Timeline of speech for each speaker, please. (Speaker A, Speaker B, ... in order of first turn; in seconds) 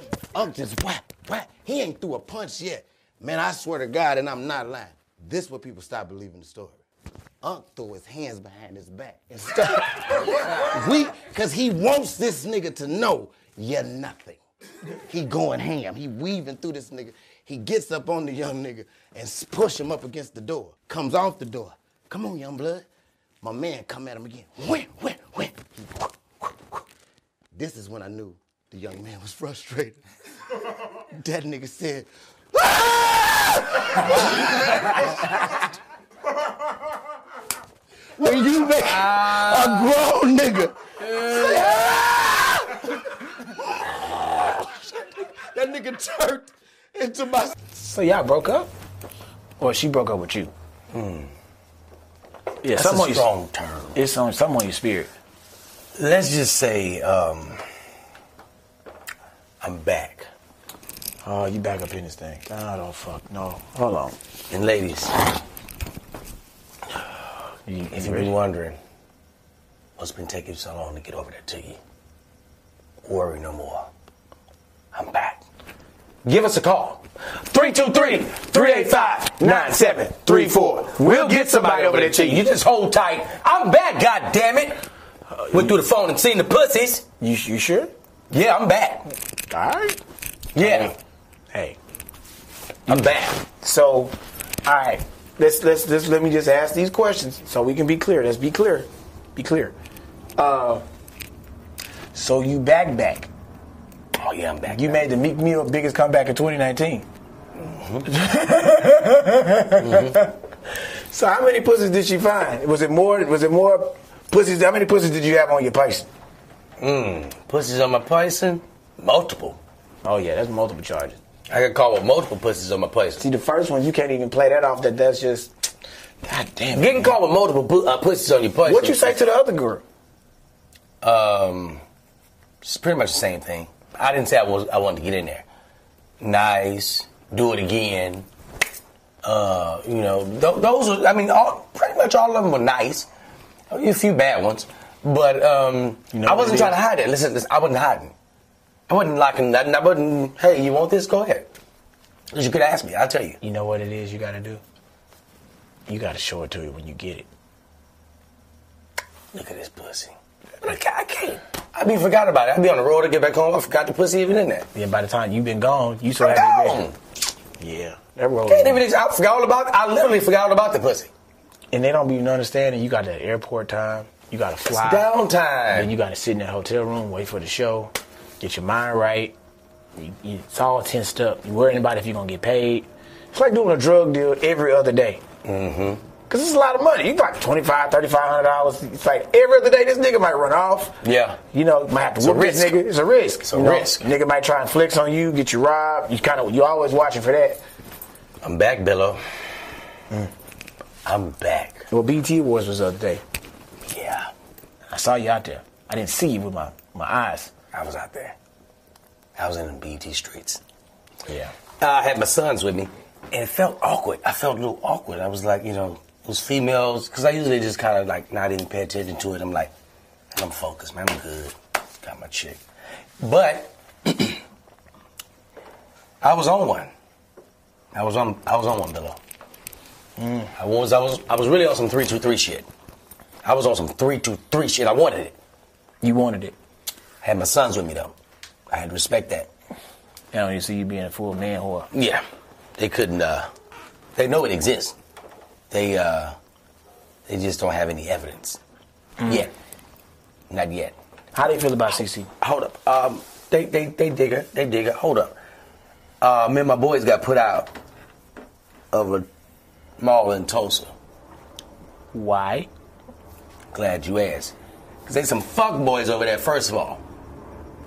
Speaker A: 0.3-6.8, 7.4-22.9, 23.4-26.8, 27.5-30.0, 30.9-35.7, 38.2-47.5
Speaker B: 39.2-39.6, 50.9-51.3, 52.7-54.0, 56.0-57.6, 59.6-60.3, 64.5-65.4, 67.9-68.8, 70.0-71.8, 73.0-73.9, 74.9-75.4, 76.2-84.8, 85.5-87.0, 88.3-89.0, 90.5-90.9, 92.9-93.4, 104.2-105.0, 107.6-108.0, 109.8-110.2, 116.8-119.6, 121.5-123.2, 126.7-129.2, 131.0-131.8, 132.6-135.4, 136.2-138.3, 139.2-143.1, 143.7-148.1, 148.9-151.5, 152.3-153.4, 159.3-164.7, 166.2-166.9, 168.5-171.1, 174.7-175.9, 185.4-186.0, 191.0-191.4, 192.2-192.8, 193.4-194.1, 198.4-199.2, 201.0-201.9, 203.8-204.3, 207.7-208.3, 209.3-210.6, 211.8-219.7, 220.3-222.6, 223.2-224.4, 226.2-226.9, 227.9-229.2, 230.5-232.7, 233.4-235.3, 237.2-238.1, 238.7-239.5, 241.9-242.2, 242.8-243.5, 244.2-245.0, 245.7-246.3, 247.3-248.6, 249.2-249.5, 250.5-250.9, 252.4-255.3, 256.2-257.7, 258.9-259.3, 260.0-260.9, 263.7-267.0
Speaker C: 47.7-48.7, 49.6-50.5, 52.6-53.3, 53.9-55.1, 61.2-64.2, 67.7-68.3, 77.5-82.5, 85.3-85.7, 87.2-87.9, 89.5-90.0, 90.6-91.0, 91.5-91.8, 92.9-94.1, 94.7-99.7, 100.4-100.8, 102.1-103.3, 104.7-107.0, 108.0-110.4, 111.1-116.1, 120.0-121.2, 123.2-125.5, 126.2-127.2, 128.6-129.8, 146.1-146.8, 153.4-154.6, 155.9-157.3, 164.7-166.8, 167.6-168.8, 171.7-175.1, 175.7-179.3, 179.9-185.2, 186.3-191.0, 191.5-197.6, 201.9-203.2, 204.9-207.5, 211.3-211.5, 230.2-230.5, 236.0-236.5, 240.3-241.9, 251.3-252.3, 262.1-262.7